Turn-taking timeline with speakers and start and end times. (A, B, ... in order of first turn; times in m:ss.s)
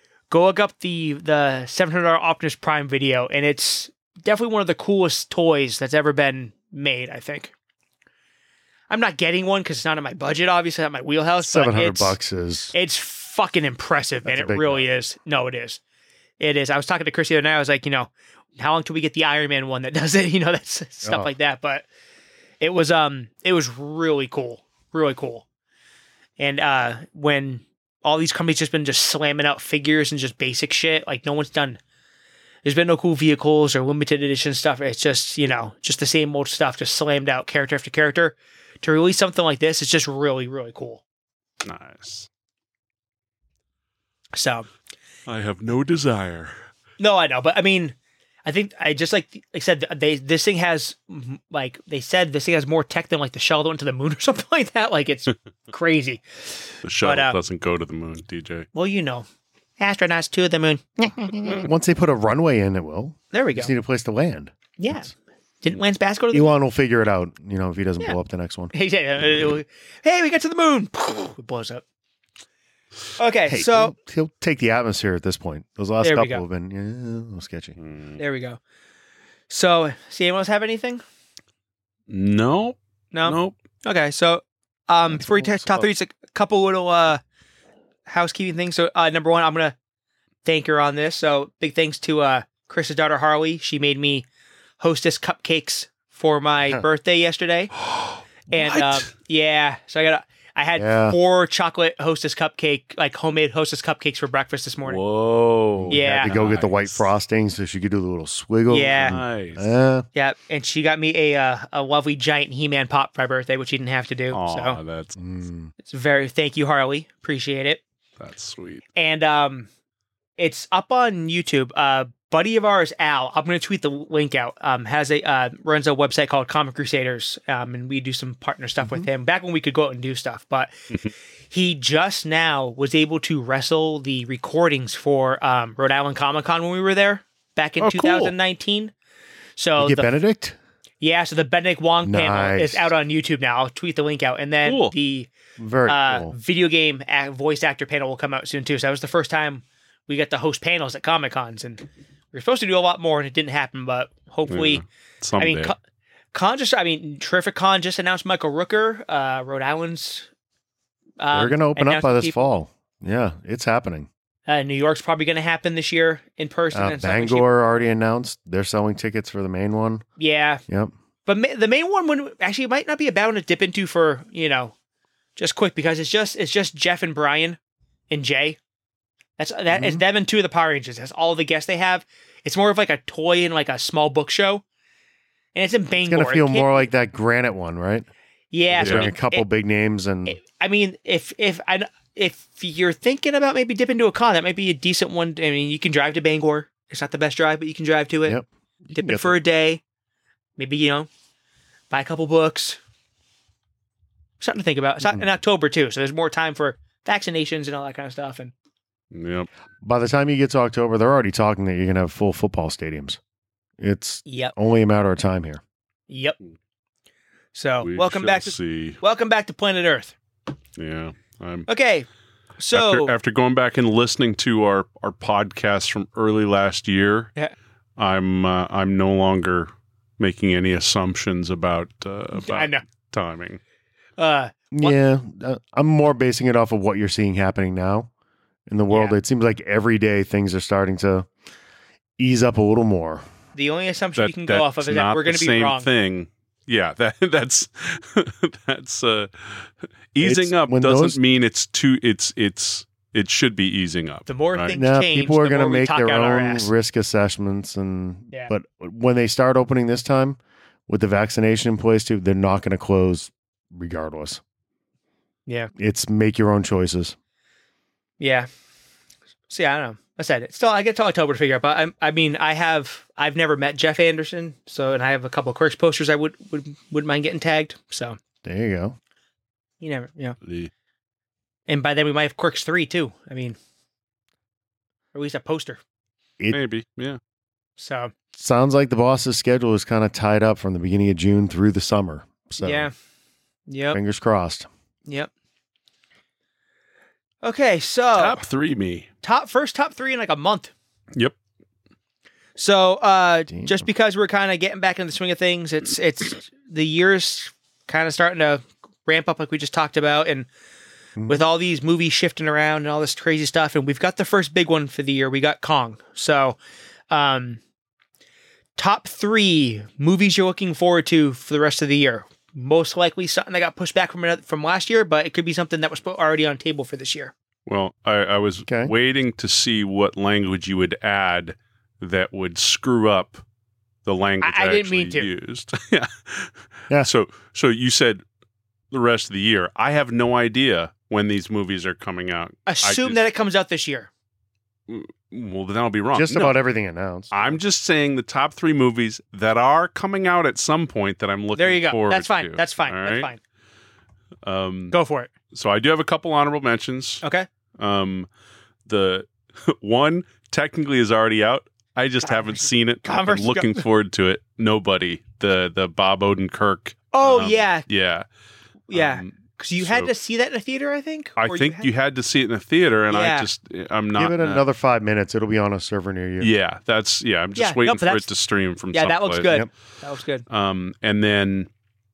0:00.3-0:07.5 A
0:08.9-0:12.2 A
0:11.4-0:12.7 B
0:12.7-0:15.8 A
0:14.2-0:14.8 B
0:16.4-0:21.8 A
0:22.6-0:25.4 A
0:26.4-0:31.8 A
0:32.6-0:41.0 A
0:41.6-0:42.3 C
0:44.3-0:44.7 A
0:45.3-0:46.5 C
0:47.0-0:57.4 A
0:56.8-0:58.7 C
0:58.7-0:59.2 A
0:59.8-1:01.6 A
1:01.4-1:05.1 B
1:03.3-1:03.7 A
1:04.8-1:05.1 A
1:05.6-1:06.5 A
1:06.3-1:08.7 B
1:08.7-1:11.8 A
1:13.2-1:13.9 A
1:13.5-1:17.8 B
1:16.0-1:16.4 A
1:17.8-1:18.2 C
1:18.2-1:18.6 A
1:19.5-1:21.0 A
1:22.1-1:23.5 C
1:23.1-1:27.2 A
1:25.1-1:25.9 B
1:28.1-1:29.8 A
1:30.4-1:34.2 A
1:34.8-1:37.7 A
1:37.8-1:39.1 C
1:38.5-1:45.0 A
1:40.8-1:41.2 B
1:44.8-1:47.0 C
1:45.8-1:50.1 B
1:45.9-1:46.3 A
1:48.7-1:49.2 A
1:49.0-1:49.7 C
1:50.1-1:54.8 A
1:54.3-1:55.2 C
1:55.2-1:55.7 B
1:55.8-1:57.8 A
1:58.2-1:58.8 C
1:59.0-1:59.7 A
2:00.4-2:10.7 A
2:11.5-2:18.9 A
2:17.8-2:18.3 C
2:19.6-2:20.1 A
2:19.8-2:20.6 B
2:21.0-2:25.3 A
2:22.0-2:22.9 B
2:24.6-2:24.9 C
2:25.6-2:26.3 B
2:25.9-2:34.8 A
2:34.5-2:35.7 C
2:35.4-2:35.8 A
2:36.3-2:40.3 A
2:41.2-2:42.5 A
2:41.3-2:44.1 B
2:44.5-2:47.5 A
2:46.7-2:50.0 B
2:50.2-2:50.6 A
2:51.2-2:54.7 A
2:55.4-2:57.6 A
2:58.1-2:58.6 A
2:59.4-3:04.6 A
2:59.7-3:00.0 B
3:05.5-3:06.8 A
3:06.0-3:08.1 B
3:08.5-3:09.4 A
3:08.7-3:10.4 B
3:08.8-3:09.1 C
3:10.2-3:18.4 A
3:18.2-3:19.3 B
3:18.9-3:19.8 A
3:20.6-3:21.1 A
3:21.9-3:22.8 A
3:24.4-3:28.5 A
3:29.1-3:29.5 C
3:29.8-3:33.2 B
3:33.8-3:35.6 B
3:34.2-3:34.5 A
3:36.1-3:36.4 A
3:37.5-3:40.1 A
3:37.8-3:39.0 C
3:40.8-3:41.7 C
3:41.7-3:42.1 A
3:42.6-3:43.1 A
3:42.7-3:47.3 C
3:48.0-3:53.6 C
3:52.4-3:52.8 A
3:54.2-3:55.0 A
3:54.7-3:58.1 B
3:58.7-4:01.3 B
3:58.9-3:59.2 A
4:02.2-4:03.2 B
4:03.5-4:05.9 A
4:04.2-4:14.8 C
4:10.2-4:11.2 B
4:14.3-4:16.7 A
4:14.7-4:24.4 B
4:25.8-4:27.2 B
4:28.2-4:28.5 A
4:29.5-4:38.2 A
4:38.4-4:39.0 B
4:39.8-4:40.4 A
4:40.4-4:40.7 C
4:41.7-4:43.6 A
4:45.1-4:45.8 A
4:46.5-4:47.2 C
4:47.8-4:48.1 A
4:48.3-4:52.9 B
4:52.6-4:52.9 A
4:53.7-4:54.0 A
4:53.9-4:54.7 B
4:57.4-4:58.4 A
4:58.1-4:59.1 C
4:59.2-5:00.7 A
5:02.6-5:10.5 A
5:03.5-5:03.9 B
5:11.2-5:11.4 B
5:11.3-5:16.6 A
5:17.1-5:17.6 A
5:18.8-5:27.3 A
5:27.6-5:33.4 C
5:28.7-5:28.9 B
5:34.0-5:38.2 C
5:34.4-5:35.3 A
5:38.9-5:43.2 C
5:42.6-5:44.1 A
5:44.9-5:46.6 C
5:46.1-5:47.6 B
5:47.3-5:53.3 C
5:51.6-5:53.4 A
5:54.4-5:54.9 C
5:54.9-5:55.3 A
5:55.5-5:57.2 C
5:57.2-5:57.5 A
5:57.8-5:58.3 C
5:58.8-6:08.2 C
6:02.2-6:03.8 A
6:07.1-6:07.8 A
6:08.9-6:11.9 A
6:08.9-6:10.1 C
6:11.4-6:14.6 C
6:13.1-6:13.5 A
6:14.2-6:16.5 B
6:16.4-6:19.5 C
6:17.6-6:18.3 A
6:18.9-6:20.4 A
6:20.5-6:21.7 C